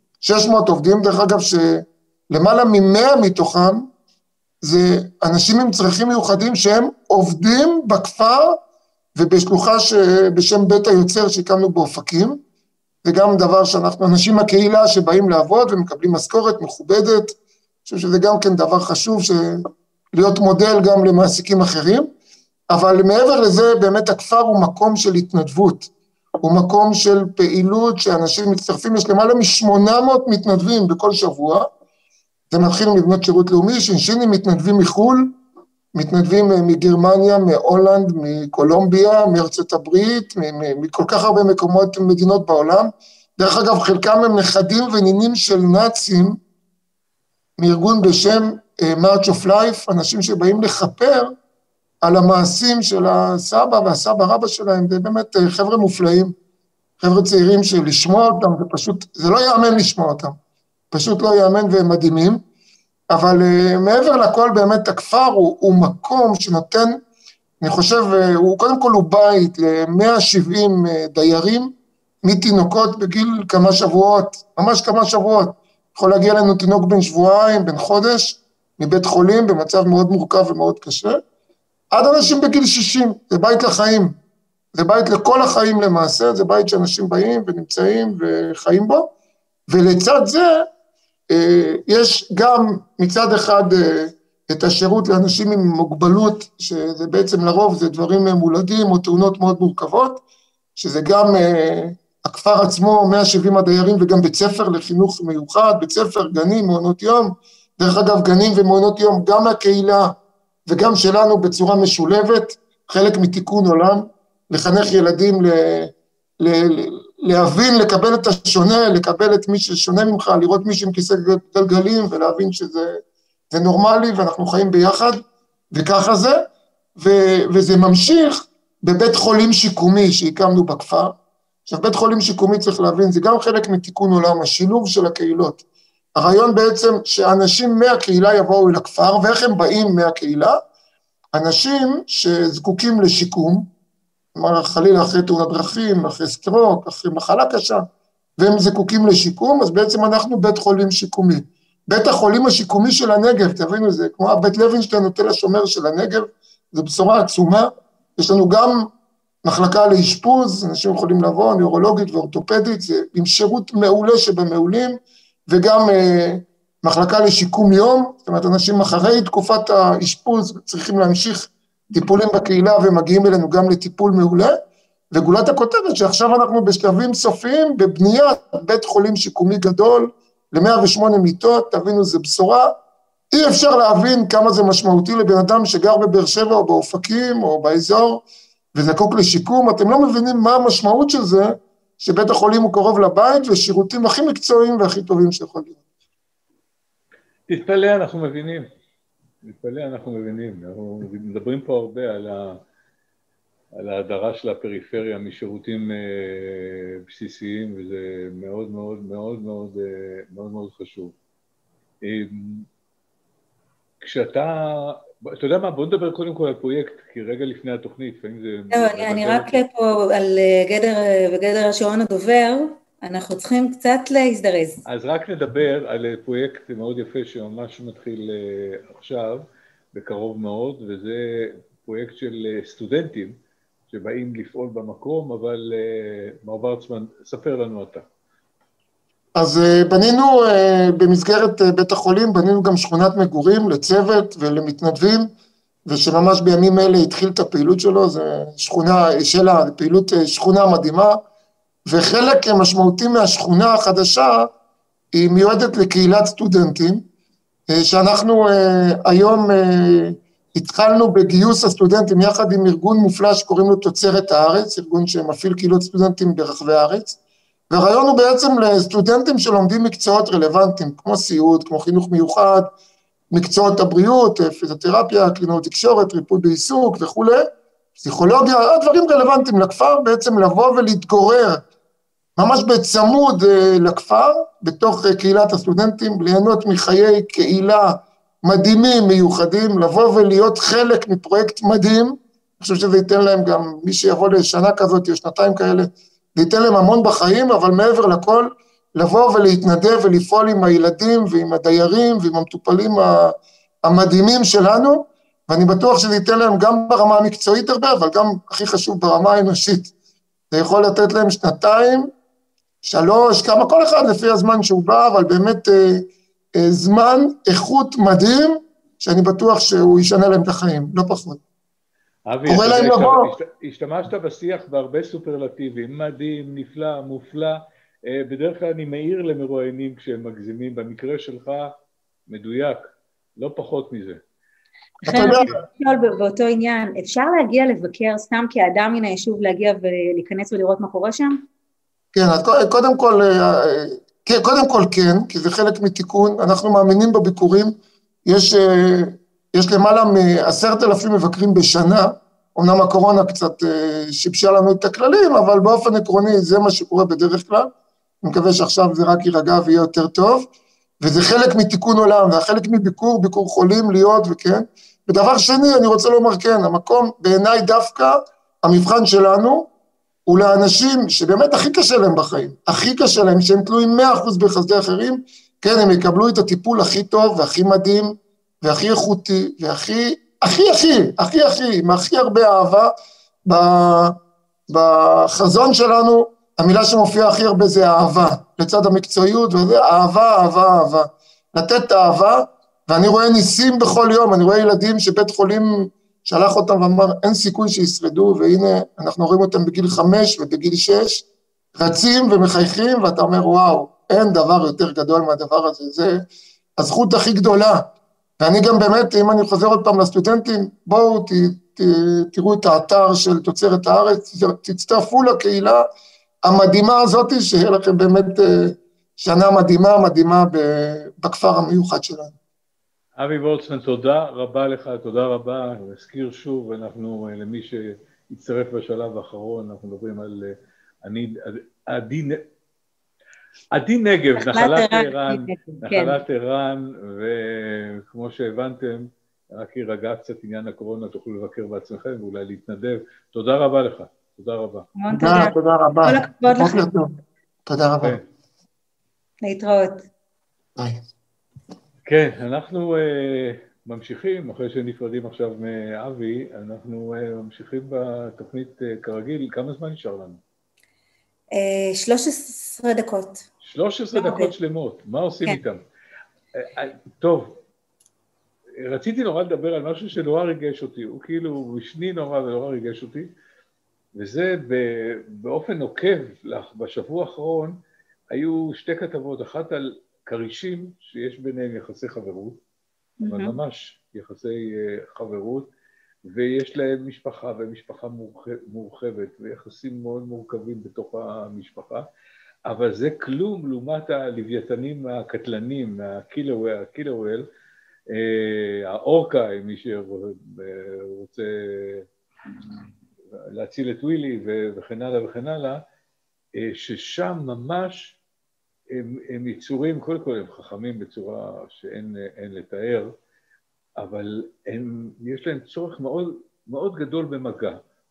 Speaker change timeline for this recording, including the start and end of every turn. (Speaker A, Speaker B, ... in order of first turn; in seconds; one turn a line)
Speaker A: 0.2-3.9
Speaker A: 4.6-8.6
Speaker A: 9.1-12.4
Speaker A: 13.0-22.1
Speaker A: 22.7-25.9
Speaker A: 26.4-31.7
Speaker A: 32.5-35.4
Speaker A: 35.9-46.4
Speaker A: 47.6-51.3
Speaker A: 52.0-56.3
Speaker A: 57.0-60.3
Speaker A: 60.9-62.4
Speaker A: 63.1-67.0
Speaker A: 67.6-81.2
Speaker A: 81.9-84.2
Speaker A: 84.7-89.1
Speaker A: 89.7-90.7
Speaker A: 91.3-100.2
Speaker A: 100.8-126.5
Speaker A: 127.0-131.1
Speaker A: 131.7-135.6
Speaker A: 136.2-140.6
Speaker A: 141.3-143.7
Speaker A: 144.3-147.8
Speaker A: 148.4-158.9
Speaker A: 159.4-165.0
Speaker A: 165.5-174.5
Speaker A: 175.1-182.7
Speaker A: 183.3-195.8
Speaker B: 197.5-198.7
Speaker B: 199.4-202.6
Speaker B: 203.7-211.1
Speaker B: 212.0-212.7
Speaker B: 214.0-219.6
Speaker C: 218.7-224.8
Speaker B: 224.8-233.3
Speaker B: 233.9-238.0
Speaker A: 239.3-245.3
Speaker A: 245.8-251.2
Speaker A: 251.9-254.5
Speaker A: 255.1-257.0
Speaker A: 257.7-267.2
Speaker A: 267.7-272.7
Speaker A: 273.3-277.4
Speaker A: 278.0-281.6
Speaker A: 282.4-309.9
Speaker A: 310.5-312.1
Speaker A: 312.8-321.4
Speaker B: 322.3-331.7
Speaker A: 322.5-323.3
Speaker B: 332.3-334.2
Speaker C: 335.0-341.4
Speaker A: 335.0-335.5
Speaker A: 342.1-357.7
Speaker A: 358.2-360.5
Speaker A: 361.0-369.7
Speaker A: 370.3-382.9
Speaker A: 383.4-401.2
Speaker A: 401.8-406.2
Speaker A: 406.8-415.8
Speaker A: 416.4-422.3
Speaker B: 423.2-432.4
Speaker B: 433.7-444.9
Speaker C: 434.4-436.2
Speaker C: 444.9-445.5
Speaker A: 445.1-447.1
Speaker C: 446.0-446.8
Speaker A: 447.6-448.2
Speaker C: 449.4-450.1
Speaker B: 452.1-460.4
Speaker C: 461.5-463.4
Speaker B: 463.6-465.8
Speaker C: 464.1-464.5
Speaker B: 466.5-467.6
Speaker B: 468.8-473.3
Speaker B: 474.1-477.8
Speaker B: 478.3-482.6
Speaker C: 483.2-483.6
Speaker B: 483.2-485.7
Speaker B: 486.2-492.1
Speaker B: 492.7-497.5
Speaker B: 498.1-502.1
Speaker B: 503.5-505.8
Speaker B: 506.6-508.2
Speaker B: 508.9-513.1
Speaker B: 514.0-517.8